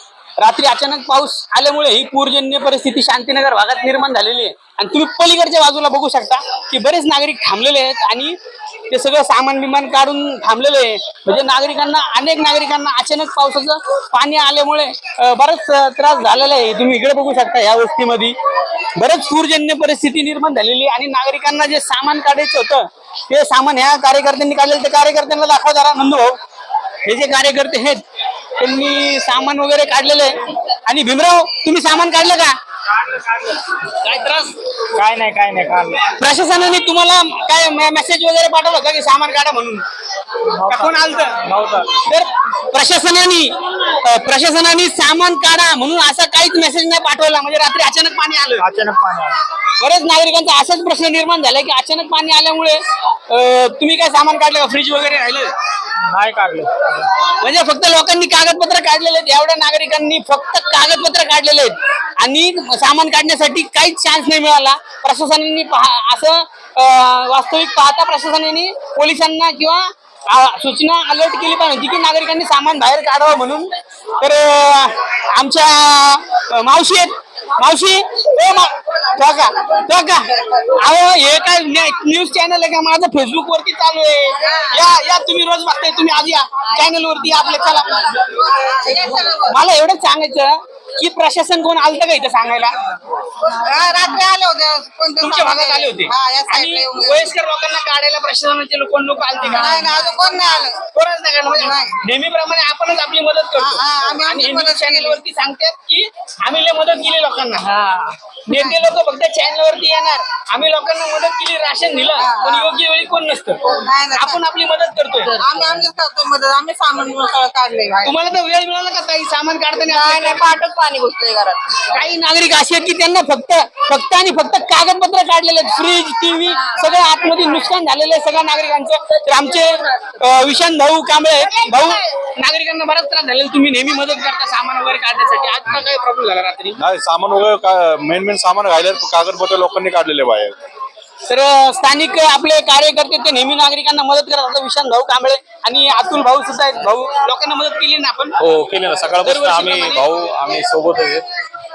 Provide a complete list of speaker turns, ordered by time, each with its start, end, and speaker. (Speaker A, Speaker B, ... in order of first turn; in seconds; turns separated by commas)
Speaker A: 0.4-8.3, Speaker A: 8.9-18.3, Speaker A: 18.9-26.4, Speaker A: 27.0-28.0, Speaker A: 28.6-32.5, Speaker B: 33.0-33.6, Speaker A: 33.8-34.5, Speaker B: 34.9-36.0, Speaker A: 36.1-39.8, Speaker B: 40.5-41.9, Speaker A: 40.7-48.6, Speaker B: 48.6-49.4, Speaker A: 49.8-55.5, Speaker B: 56.0-57.1, Speaker A: 57.4-88.2, Speaker C: 84.4-84.8, Speaker C: 88.2-89.6, Speaker A: 89.2-92.7, Speaker C: 93.3-97.3, Speaker A: 95.2-100.1, Speaker C: 99.4-100.8, Speaker A: 100.9-113.6, Speaker C: 101.5-102.0, Speaker C: 103.6-105.2, Speaker C: 108.5-108.8, Speaker C: 112.2-112.7, Speaker C: 113.6-114.4, Speaker A: 114.2-115.4, Speaker C: 115.3-118.2, Speaker A: 118.0-120.5, Speaker A: 121.9-136.8, Speaker D: 136.8-140.6, Speaker A: 141.3-148.3, Speaker E: 148.4-151.2, Speaker A: 149.2-150.1